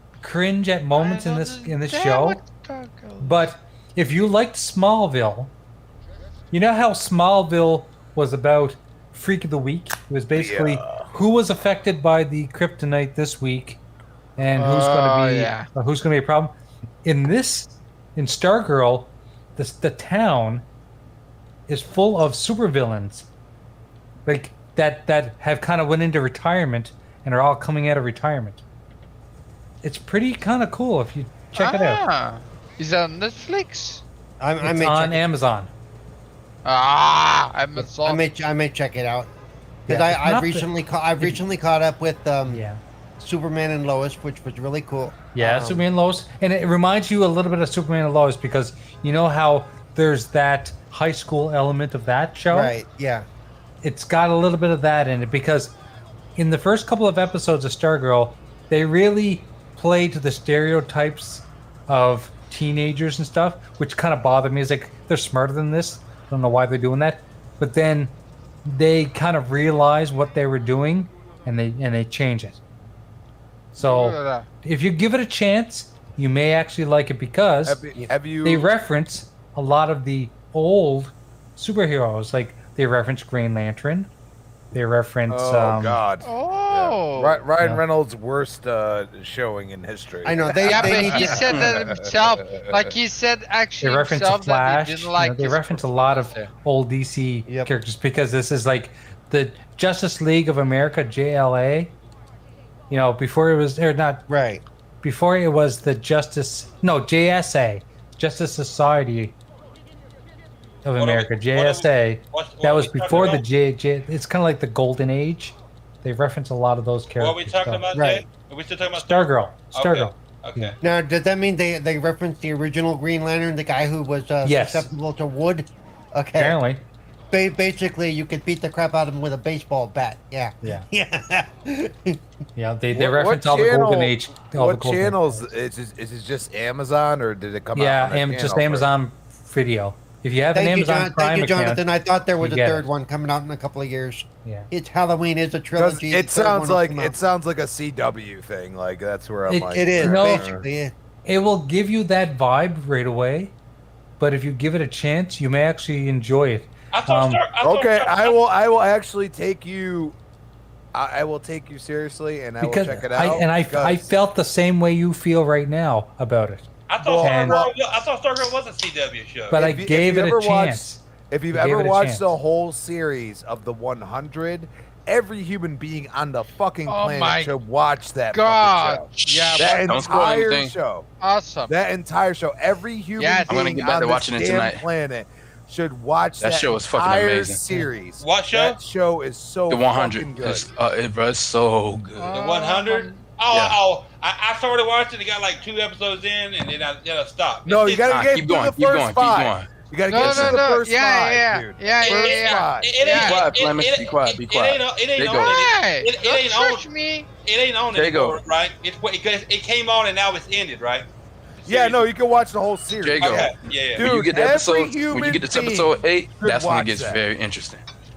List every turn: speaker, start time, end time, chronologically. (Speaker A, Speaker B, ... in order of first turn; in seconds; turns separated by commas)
Speaker A: 0.2-2.4, Speaker B: 0.9-3.5, Speaker A: 3.2-5.5, Speaker A: 6.5-13.8, Speaker C: 10.3-11.1, Speaker A: 14.4-16.5, Speaker B: 14.6-15.7, Speaker A: 17.0-20.6, Speaker A: 21.7-23.3, Speaker A: 24.2-28.6, Speaker A: 29.8-32.0, Speaker B: 31.5-34.0, Speaker D: 34.4-35.2, Speaker A: 34.6-35.7, Speaker B: 36.6-38.2, Speaker D: 38.0-39.3, Speaker D: 39.9-42.6, Speaker A: 39.9-41.4, Speaker A: 42.5-42.8, Speaker D: 43.2-45.8, Speaker A: 45.3-52.7, Speaker D: 52.5-53.3, Speaker A: 53.8-55.7, Speaker A: 56.4-68.1, Speaker A: 68.6-72.6, Speaker A: 73.8-77.9, Speaker B: 73.8-74.5, Speaker C: 77.6-78.7, Speaker A: 78.4-84.1, Speaker A: 84.7-86.0, Speaker C: 85.3-92.9, Speaker B: 86.2-87.5, Speaker D: 90.2-91.7, Speaker B: 90.6-96.5, Speaker E: 91.5-91.8, Speaker A: 93.8-101.9, Speaker D: 97.5-97.7, Speaker A: 102.9-104.2, Speaker D: 104.3-104.6, Speaker A: 105.0-109.3, Speaker A: 110.8-117.8, Speaker F: 111.0-113.4, Speaker F: 117.2-120.8, Speaker D: 117.9-118.2, Speaker A: 118.9-120.7, Speaker D: 120.8-126.6, Speaker A: 124.4-124.9, Speaker A: 126.4-126.8, Speaker D: 127.3-132.2, Speaker A: 132.6-135.5, Speaker C: 132.9-138.9, Speaker A: 137.7-141.8, Speaker D: 140.5-147.2, Speaker A: 142.4-142.9, Speaker C: 145.7-150.7, Speaker A: 149.5-150.5, Speaker D: 149.7-150.9, Speaker A: 151.2-153.5, Speaker A: 154.2-157.4, Speaker F: 156.9-158.4, Speaker C: 157.6-160.2, Speaker C: 160.9-164.1, Speaker A: 162.6-166.7, Speaker F: 166.9-169.7, Speaker C: 167.0-167.7, Speaker A: 167.2-167.7, Speaker A: 169.5-172.3, Speaker C: 169.5-181.1, Speaker B: 176.9-177.5, Speaker B: 178.3-180.2, Speaker E: 179.2-180.8, Speaker B: 181.2-181.7, Speaker C: 181.7-190.7, Speaker B: 183.2-183.8, Speaker E: 183.4-184.8, Speaker E: 186.4-187.7, Speaker F: 188.2-188.8, Speaker E: 189.7-192.3, Speaker B: 192.1-193.3, Speaker F: 192.3-198.2, Speaker E: 193.5-193.8, Speaker C: 197.6-203.0, Speaker E: 198.1-200.7, Speaker B: 200.1-203.5, Speaker F: 202.0-206.9, Speaker E: 203.2-205.6, Speaker B: 205.2-207.3, Speaker F: 207.4-211.1, Speaker E: 207.9-208.4, Speaker F: 211.6-212.1, Speaker C: 211.6-217.2, Speaker E: 213.0-217.8, Speaker F: 213.2-214.1